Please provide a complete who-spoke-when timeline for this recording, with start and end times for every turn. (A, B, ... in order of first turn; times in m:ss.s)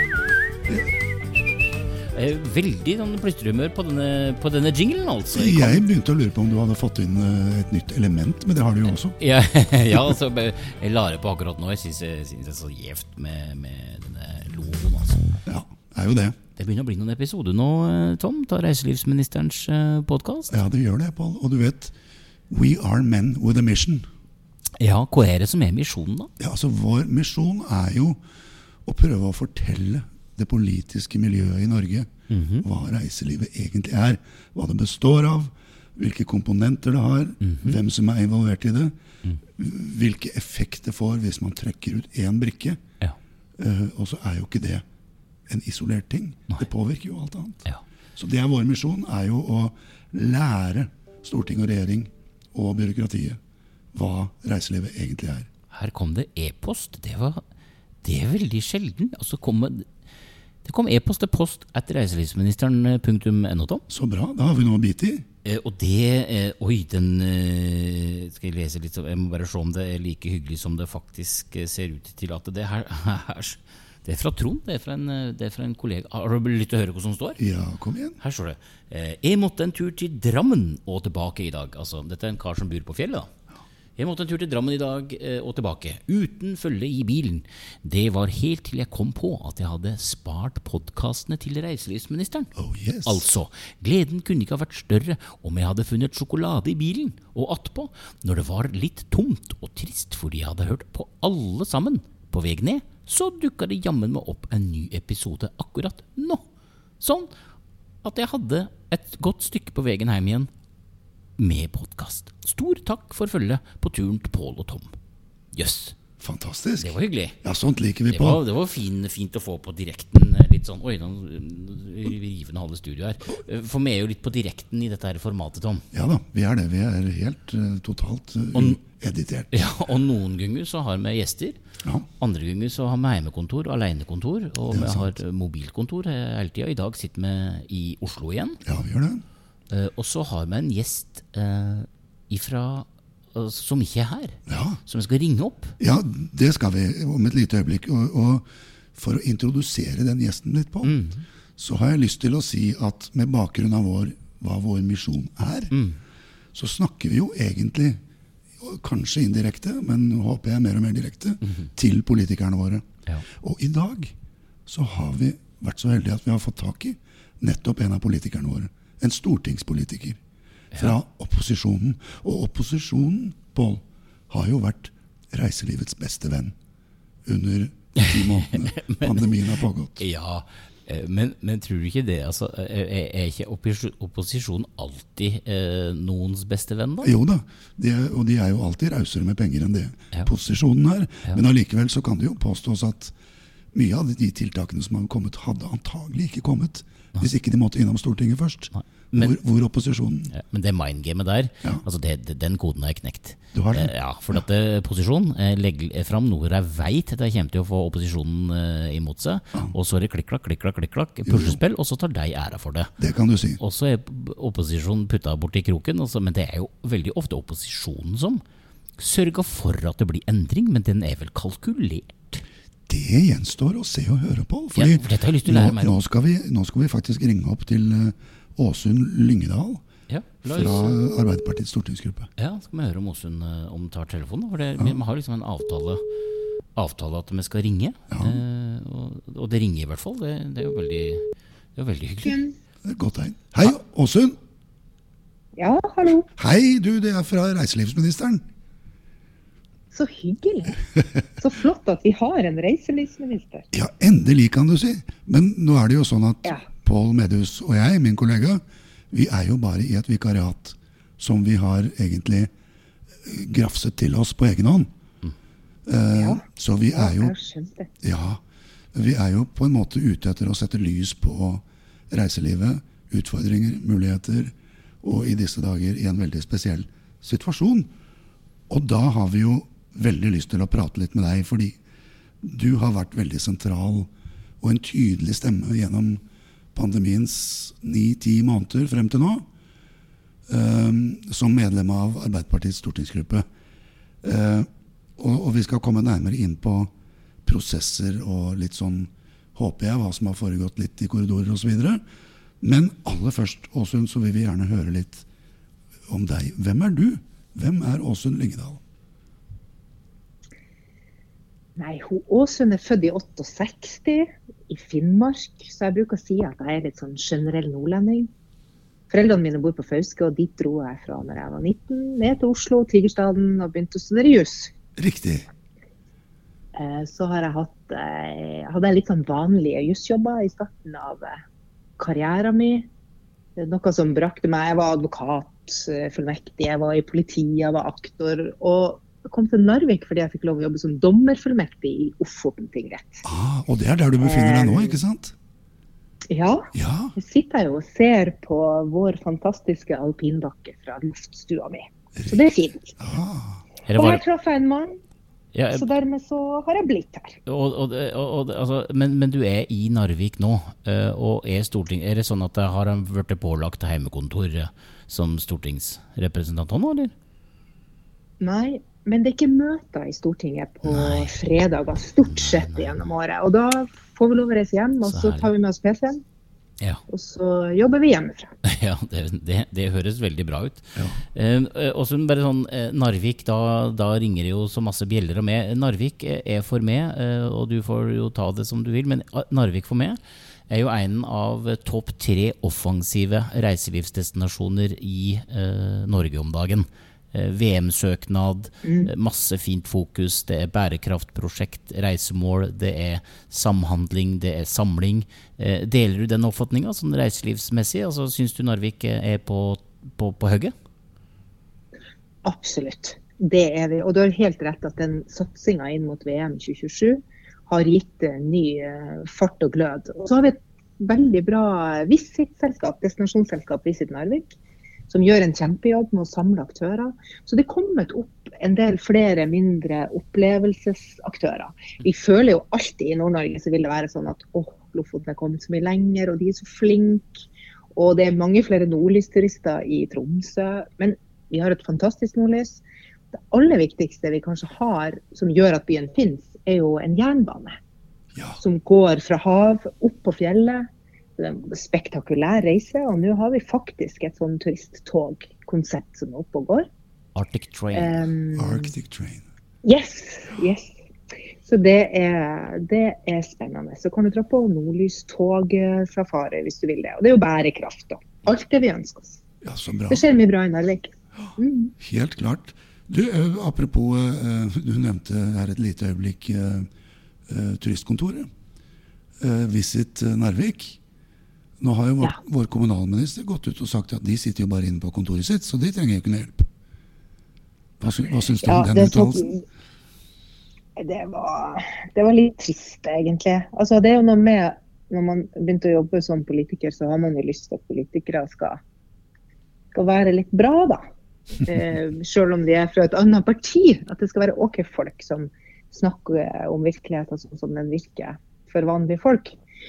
0:02.1-0:05.8 A
0:05.3-0:09.2 B
0:09.2-0:15.2 A
0:15.4-0:16.4 B
0:16.6-0:20.6 A
0:20.5-0:21.9 B
0:22.5-0:24.1 B
0:24.8-0:26.3 A
0:26.4-0:28.2 B
0:28.8-0:39.0 B
0:32.3-0:32.7 A
0:37.4-0:37.8 A
0:39.6-0:42.8 B
0:43.6-0:44.8 B
0:45.5-0:53.4 B
0:53.9-0:55.5 B
0:55.7-0:57.4 A
0:58.0-0:59.9 A
1:00.6-1:03.8 A
1:03.9-1:05.2 B
1:05.4-1:17.4 A
1:17.4-1:18.2 B
1:18.2-1:23.3 A
1:24.0-1:32.5 A
1:32.6-1:33.3 B
1:33.0-1:46.4 A
1:47.0-1:47.3 A
1:48.0-1:50.5 A
1:51.4-1:54.9 A
1:55.5-1:56.0 A
1:56.2-1:58.4 B
1:56.8-1:57.4 A
1:58.1-2:05.8 A
2:05.9-2:09.5 B
2:09.5-2:11.6 A
2:12.2-2:18.6 A
2:14.7-2:15.1 B
2:18.6-2:19.2 B
2:19.7-2:25.8 A
2:24.5-2:24.8 B
2:25.8-2:31.0 B
2:30.8-2:31.2 A
2:31.6-2:35.7 B
2:35.7-2:36.0 A
2:36.5-2:38.0 B
2:38.6-2:44.2 B
2:44.7-2:50.2 B
2:50.7-2:56.5 B
2:57.2-3:00.0 B
2:58.0-2:59.4 A
3:00.0-3:07.1 A
3:07.0-3:13.1 B
3:13.7-3:20.3 B
3:18.8-3:19.4 A
3:20.3-3:32.9 A
3:23.5-3:24.4 B
3:31.2-3:31.6 B
3:33.0-3:33.6 B
3:33.6-3:38.4 A
3:39.0-3:42.4 A
3:42.9-3:49.8 B
3:44.8-3:45.9 A
3:50.1-3:51.0 A
3:50.4-3:52.3 B
3:52.4-3:56.0 A
3:56.8-4:02.4 A
3:58.1-3:58.4 B
4:02.2-4:02.5 C
4:02.8-4:04.4 B
4:05.6-4:06.3 C
4:06.4-4:08.4 B
4:09.9-4:10.8 C
4:11.4-4:13.6 C
4:13.7-4:22.5 B
4:23.2-4:24.9 B
4:25.9-4:27.3 B
4:26.1-4:26.4 C
4:27.0-4:27.9 C
4:28.0-4:28.4 B
4:28.9-4:37.9 B
4:38.7-4:41.8 B
4:42.4-4:46.2 B
4:46.7-4:49.4 B
4:50.5-4:53.4 B
4:54.2-4:56.9 B
4:57.4-5:02.0 B
5:02.6-5:05.2 B
5:06.1-5:08.8 B
5:11.8-5:18.3 C
5:19.1-5:24.7 C
5:25.0-5:25.4 B
5:26.8-5:31.4 C
5:32.0-5:32.9 C
5:33.6-5:43.2 C
5:43.2-5:45.4 B
5:44.2-5:45.0 C
5:46.3-5:53.0 C
5:46.7-5:47.1 B
5:53.0-5:53.6 B
5:53.9-5:54.2 A
5:53.9-5:55.0 C
5:55.5-5:55.8 A
5:55.7-5:57.4 C
5:57.5-6:07.1 A
6:08.4-6:16.2 C
6:10.9-6:11.3 A
6:12.2-6:13.1 A
6:15.1-6:15.5 A
6:17.1-6:18.5 C
6:18.6-6:50.7 A
6:21.0-6:21.2 B
6:38.8-6:39.1 C
6:52.4-7:04.5 C
7:05.1-7:17.4 C
7:17.9-7:22.8 C
7:23.3-7:27.8 C
7:28.6-7:36.9 C
7:37.4-7:38.2 A
7:37.9-7:38.9 C
7:38.6-7:39.4 B
7:39.8-7:41.0 C
7:41.6-7:49.4 C
7:49.6-7:50.2 B
7:50.1-7:51.9 C
7:52.0-7:56.9 B
7:57.5-7:58.5 B
7:59.4-8:01.0 B
8:01.8-8:06.7 B
8:08.0-8:09.5 B
8:08.6-8:09.6 C
8:11.0-8:18.8 C
8:19.9-8:29.6 C